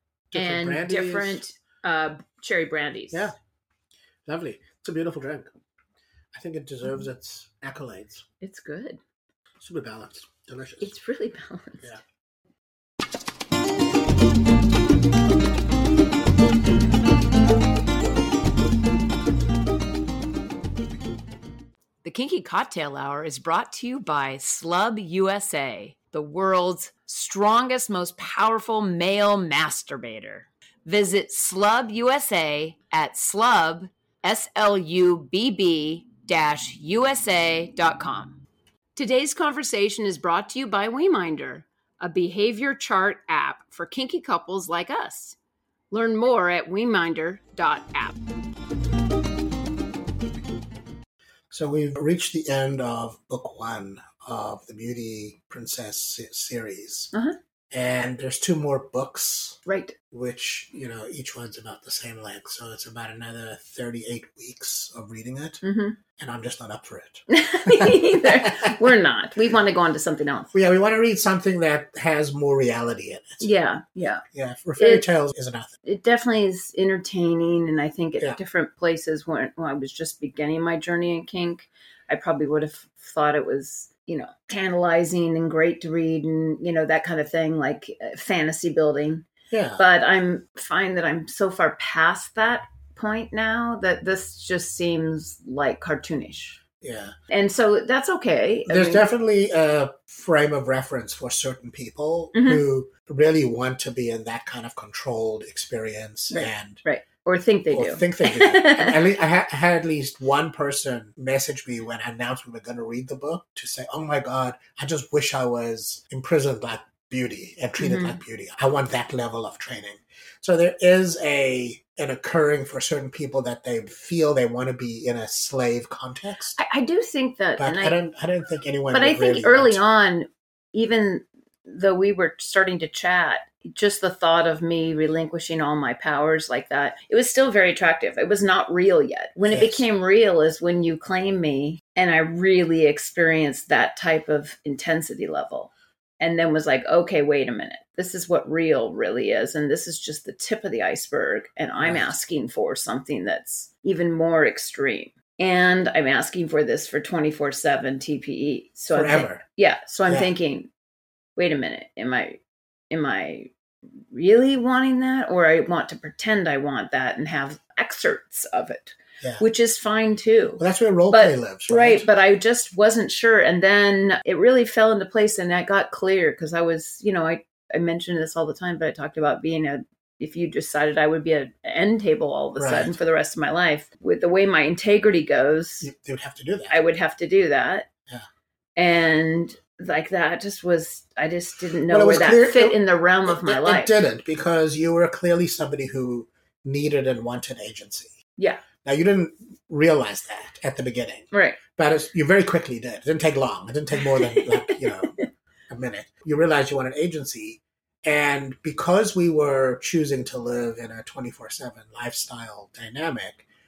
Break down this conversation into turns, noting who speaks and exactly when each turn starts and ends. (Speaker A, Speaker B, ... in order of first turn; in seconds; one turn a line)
Speaker A: 0.3-1.4
Speaker B: 0.3-3.3
Speaker A: 4.2-5.5
Speaker A: 6.3-8.2
Speaker B: 8.4-9.0
Speaker A: 9.6-10.9
Speaker B: 10.8-12.0
Speaker B: 22.0-38.4
Speaker B: 38.9-45.4
Speaker B: 45.9-48.1
Speaker A: 51.5-57.1
Speaker A: 57.7-59.6
Speaker B: 59.6-59.9
Speaker A: 60.1-65.6
Speaker B: 65.6-66.0
Speaker A: 66.2-68.8
Speaker B: 67.3-70.5
Speaker A: 70.5-73.5
Speaker B: 73.4-74.2
Speaker A: 74.3-75.7
Speaker B: 74.8-75.1
Speaker B: 75.8-89.2
Speaker A: 89.5-89.8
Speaker B: 89.8-96.6
Speaker A: 96.8-97.1
Speaker B: 97.3-99.0
Speaker A: 98.7-106.8
Speaker B: 102.3-102.6
Speaker B: 106.3-109.0
Speaker A: 107.7-126.6
Speaker B: 117.8-118.2
Speaker B: 126.6-128.0
Speaker A: 127.6-129.8
Speaker B: 128.9-160.7
Speaker A: 139.4-139.8
Speaker A: 151.8-152.1
Speaker A: 158.9-159.4
Speaker A: 160.1-160.3
Speaker B: 161.3-163.5
Speaker B: 164.1-185.9
Speaker A: 170.6-172.1
Speaker A: 182.6-182.9
Speaker A: 185.8-186.8
Speaker B: 186.7-187.9
Speaker B: 188.8-193.9
Speaker A: 191.9-198.2
Speaker B: 198.4-198.6
Speaker A: 198.8-205.2
Speaker B: 201.3-201.6
Speaker B: 204.1-205.2
Speaker A: 205.7-213.5